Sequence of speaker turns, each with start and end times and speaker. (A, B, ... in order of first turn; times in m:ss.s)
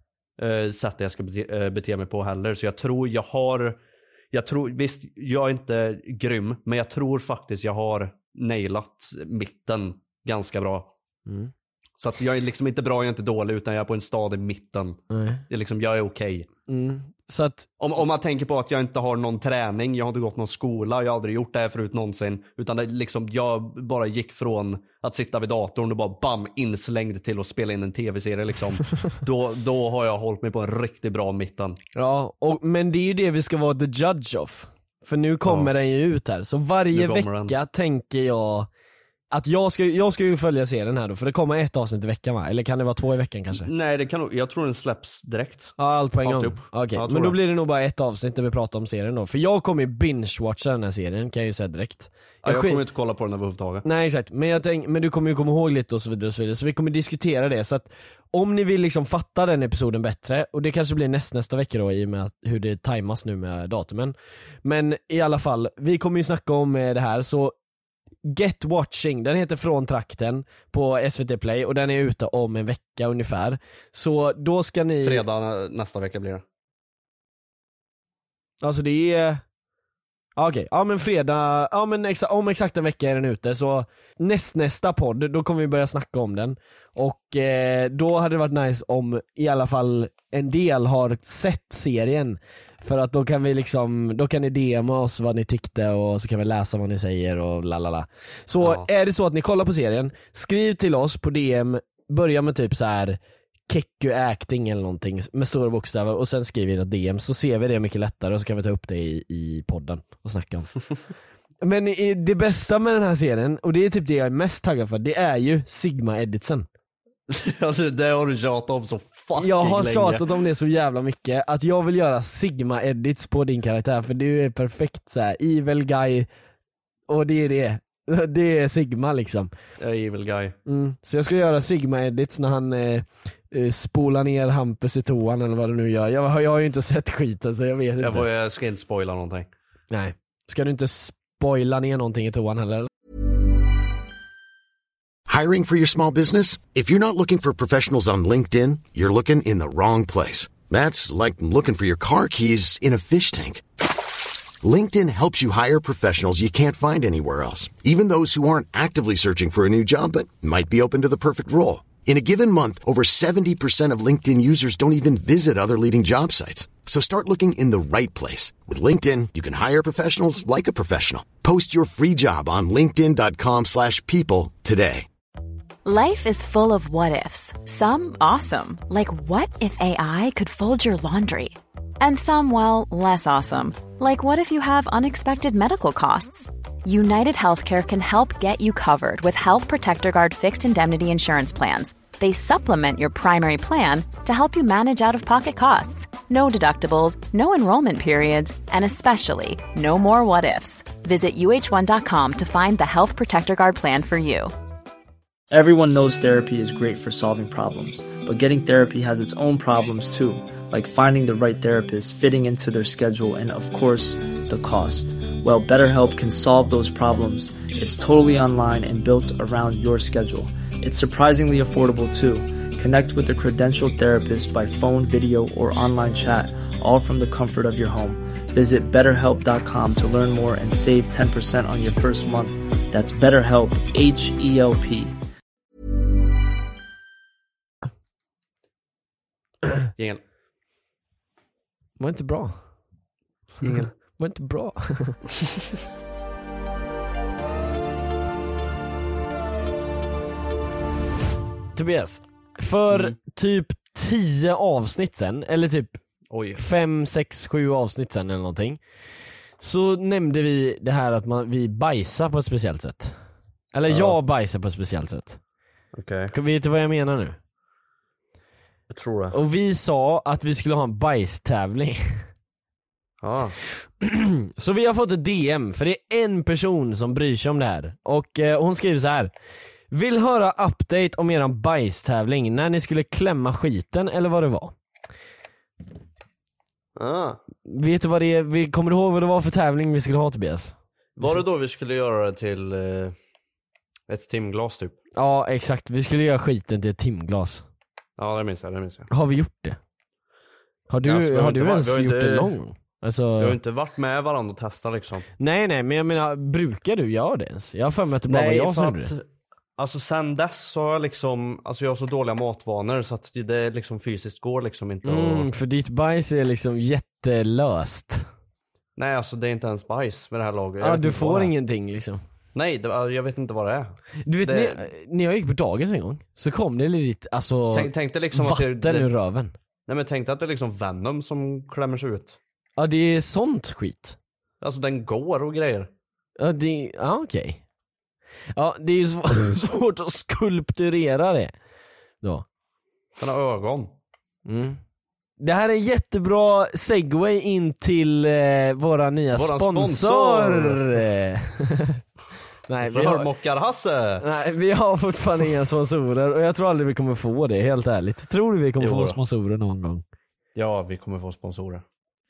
0:00.4-0:03.8 A
0:04.3-0:10.9 A
0:11.2-0:11.5 B
0:12.0-0:16.5 A
0:15.1-0:15.4 B
0:16.7-0:17.7 B
0:17.8-0:31.8 A
0:31.9-0:38.7 B
0:35.4-0:35.7 A
0:36.9-0:37.5 A
0:39.3-0:43.7 B
0:43.5-0:47.4 A
0:45.8-0:52.8 B
0:52.4-0:53.8 A
0:53.8-1:07.5 B
1:08.2-1:15.2 B
1:15.0-1:16.4 A
1:18.6-1:19.4 B
1:20.4-1:50.7 B
1:38.6-1:38.8 A
1:51.6-1:56.6 B
1:57.3-2:00.3 A
1:59.4-2:06.3 B
2:07.1-2:09.5 B
2:09.8-2:10.6 A
2:10.6-2:18.3 B
2:18.0-2:19.5 A
2:19.9-2:22.9 B
2:25.3-2:33.6 C
2:34.6-2:55.1 C
2:55.8-3:24.5 D
3:25.5-3:55.2 E
4:02.0-4:02.6 B
4:03.6-4:03.9 A
4:04.1-4:05.2 B
4:11.7-4:16.0 B
4:16.3-4:16.6 A
4:16.6-4:18.8 B
4:19.6-4:23.2 B
4:23.7-4:25.4 B
4:23.9-4:24.2 A
4:25.9-4:26.3 A
4:26.3-4:27.4 B
4:28.9-4:29.4 A
4:29.3-4:32.2 B
4:33.2-4:33.6 A
4:33.8-4:39.3 B
4:39.9-4:44.7 B
4:47.0-4:47.4 A
4:47.6-4:51.4 B
4:51.2-4:53.1 A
4:54.1-4:54.9 A
4:55.2-4:57.6 B
4:58.2-4:59.1 A
4:59.1-4:59.8 B
5:00.9-5:03.6 B
5:01.0-5:02.5 A
5:03.4-5:05.3 A
5:05.4-5:09.1 B
5:08.3-5:09.2 A
5:09.8-5:15.5 A
5:15.0-5:18.2 B
5:19.0-5:21.5 A
5:20.8-5:22.2 B
5:22.5-5:24.8 A
5:24.2-5:29.5 B
5:27.7-5:29.1 A
5:29.9-5:32.4 A
5:32.8-5:34.2 B
5:34.6-5:35.9 A
5:36.4-5:37.6 B
5:38.5-5:41.5 B
5:43.2-5:43.9 A
5:44.4-5:44.8 B
5:45.4-5:52.0 B
5:49.3-5:51.0 A
5:52.7-5:53.3 B
5:52.8-5:54.2 A
5:54.2-6:00.0 B
5:58.8-5:59.2 A
6:00.5-6:01.8 A